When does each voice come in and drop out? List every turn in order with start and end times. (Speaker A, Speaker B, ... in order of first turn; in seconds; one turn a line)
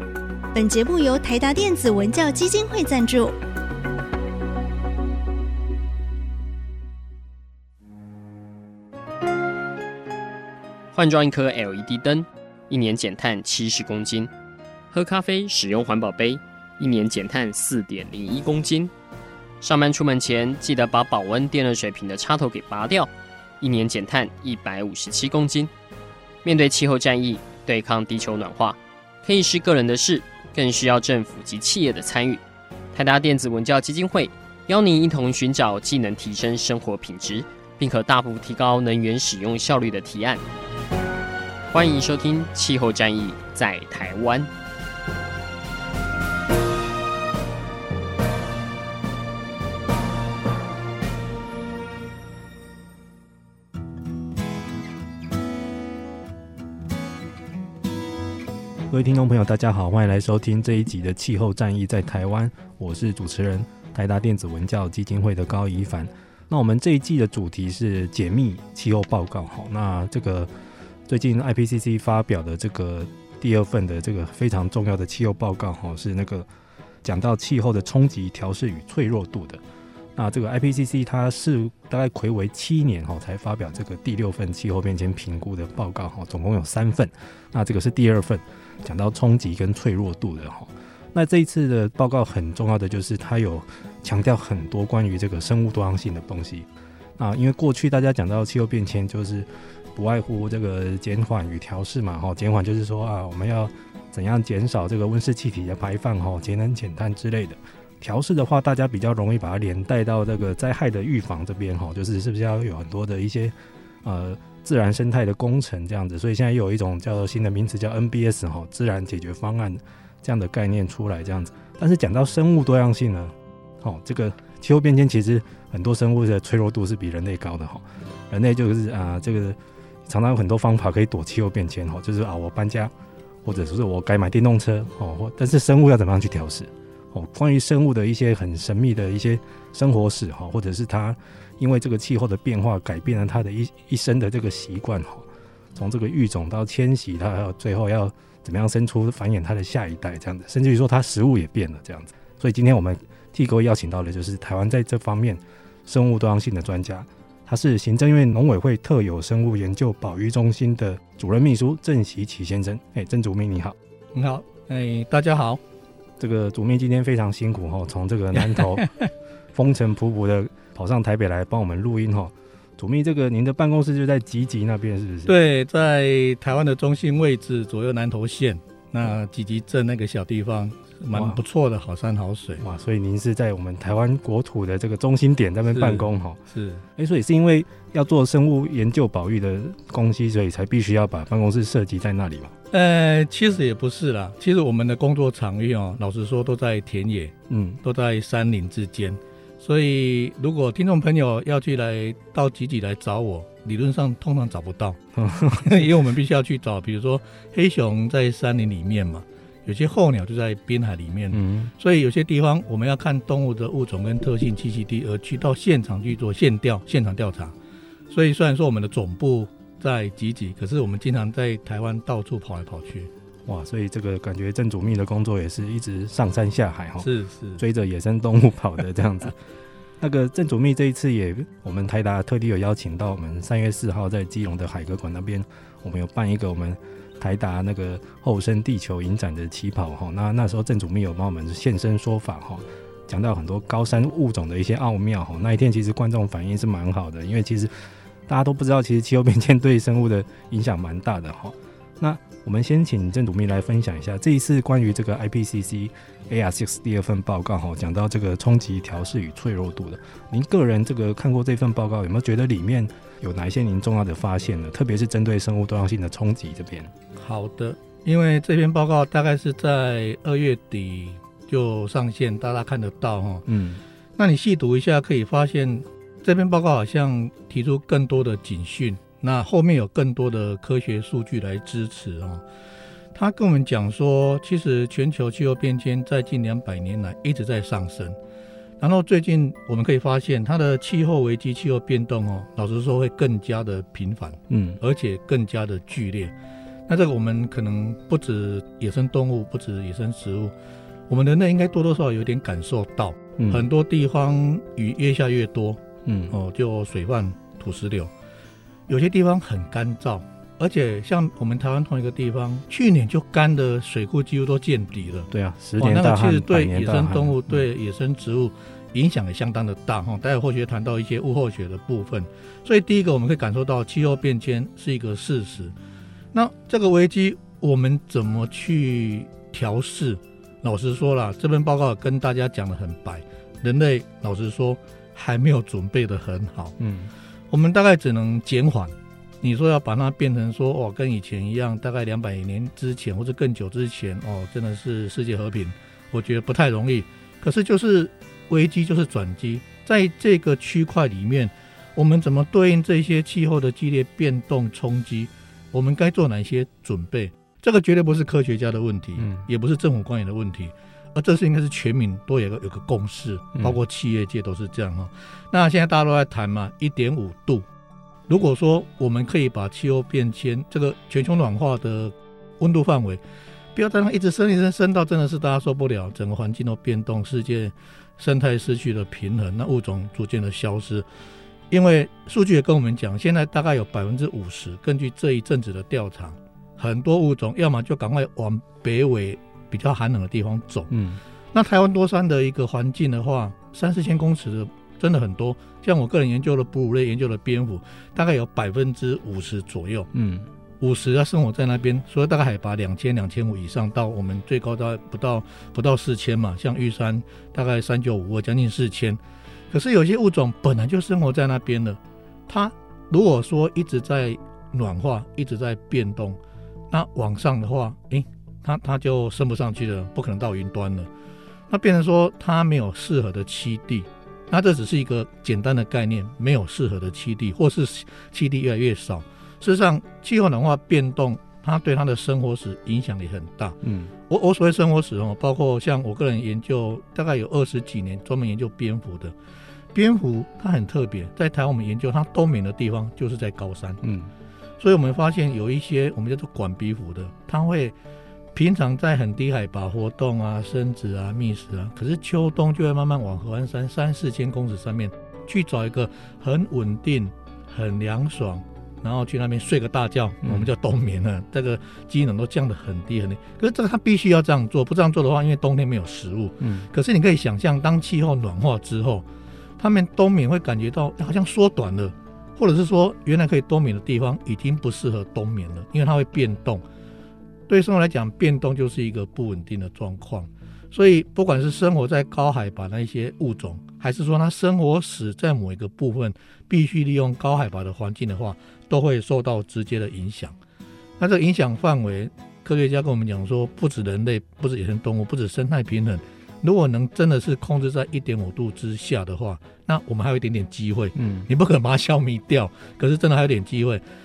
Speaker A: 0.5-3.3
Speaker B: 10.9-14.3
Speaker B: 14.9-18.9
Speaker B: 19.6-25.7
Speaker B: 26.4-32.4
Speaker B: 32.9-40.4
Speaker B: 41.7-44.5
Speaker C: 58.9-70.5
Speaker C: 71.1-76.5
Speaker C: 77.0-79.6
Speaker C: 80.2-132.9
Speaker C: 133.4-163.8
Speaker D: 164.1-165.6
Speaker C: 166.2-168.9
Speaker D: 168.5-168.9
Speaker C: 169.5-175.3
Speaker D: 175.2-182.6
Speaker C: 181.1-181.4
Speaker C: 182.6-186.4
Speaker D: 185.7-186.8
Speaker C: 186.9-192.5
Speaker D: 192.7-205.0
Speaker C: 197.5-197.8
Speaker C: 205.1-205.8
Speaker D: 205.6-217.5
Speaker C: 211.3-211.7
Speaker D: 218.1-223.1
Speaker C: 223.4-229.3
Speaker D: 227.0-227.6
Speaker C: 230.0-266.9
Speaker D: 267.2-273.4
Speaker C: 273.4-273.8
Speaker D: 274.2-282.4
Speaker D: 283.1-288.1
Speaker D: 288.8-296.3
Speaker C: 294.5-294.8
Speaker D: 296.9-300.5
Speaker D: 301.1-308.1
Speaker C: 303.4-303.6
Speaker C: 306.0-306.4
Speaker D: 308.9-325.7
Speaker C: 315.3-317.6
Speaker D: 326.3-336.8
Speaker C: 336.8-337.1
Speaker D: 337.5-367.6
Speaker C: 359.2-359.4
Speaker D: 368.3-373.2
Speaker D: 373.7-381.1
Speaker D: 381.7-390.9
Speaker C: 390.9-391.2
Speaker D: 391.5-400.1
Speaker C: 400.1-400.5
Speaker D: 400.8-409.2
Speaker D: 409.7-416.4
Speaker D: 416.9-421.1
Speaker D: 421.7-439.3
Speaker C: 433.8-434.1
Speaker D: 439.9-444.0
Speaker C: 444.0-444.3
Speaker D: 444.8-447.9
Speaker D: 448.5-469.2
Speaker C: 460.4-460.7
Speaker C: 466.6-466.9
Speaker D: 469.8-476.8
Speaker D: 477.7-490.6
Speaker D: 491.2-504.0
Speaker C: 501.1-501.5